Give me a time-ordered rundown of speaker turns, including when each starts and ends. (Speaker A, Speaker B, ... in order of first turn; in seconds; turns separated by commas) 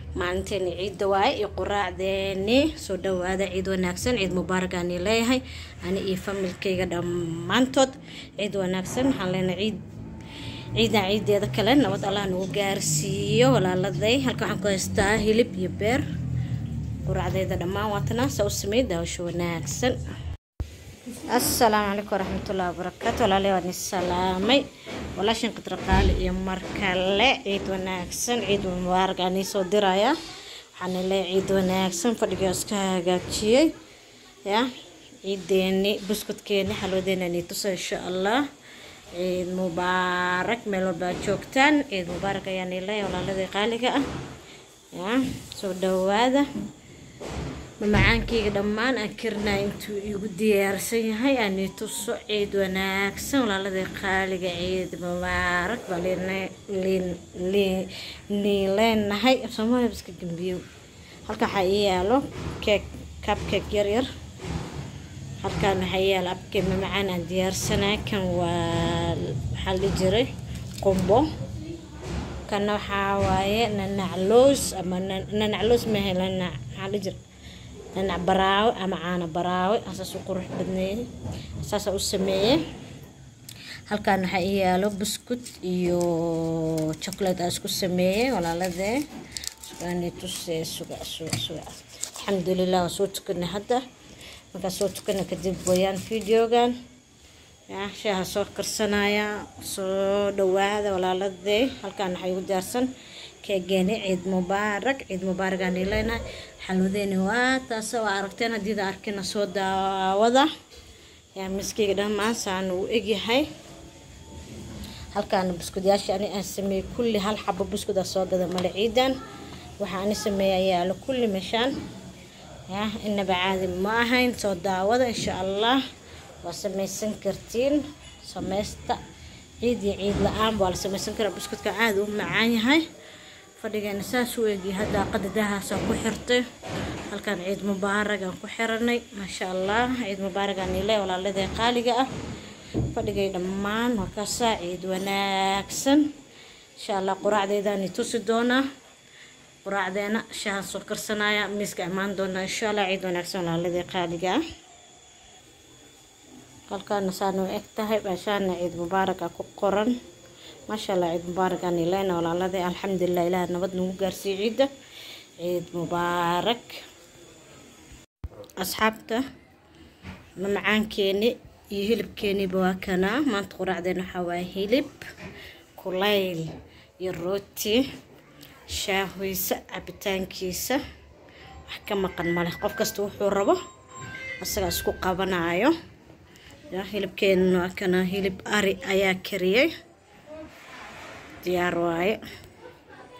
Speaker A: 0.2-9.8, Speaker A: 10.7-16.1, Speaker A: 17.0-20.0, Speaker A: 21.2-30.1, Speaker A: 30.7-33.7, Speaker A: 35.2-38.4, Speaker A: 39.1-44.0, Speaker A: 44.9-46.5, Speaker A: 47.8-60.6, Speaker A: 61.2-64.1, Speaker A: 65.4-71.3, Speaker A: 72.5-77.2, Speaker A: 77.9-82.6, Speaker A: 83.9-89.0, Speaker A: 89.6-93.8, Speaker A: 94.5-96.8, Speaker A: 97.7-102.9, Speaker A: 103.4-110.5, Speaker A: 111.3-113.5, Speaker A: 115.1-119.2, Speaker A: 119.8-121.7, Speaker A: 122.7-125.8, Speaker A: 126.4-129.0, Speaker A: 129.6-132.8, Speaker A: 133.6-136.4, Speaker A: 137.1-142.1, Speaker A: 142.8-146.1, Speaker A: 146.8-148.6, Speaker A: 149.6-154.4, Speaker A: 156.7-159.9, Speaker A: 160.7-164.7, Speaker A: 165.4-166.8, Speaker A: 168.6-169.2, Speaker A: 170.4-175.1, Speaker A: 175.8-177.8, Speaker A: 178.7-180.8, Speaker A: 181.7-183.6, Speaker A: 184.4-185.7, Speaker A: 186.7-189.7, Speaker A: 191.4-192.2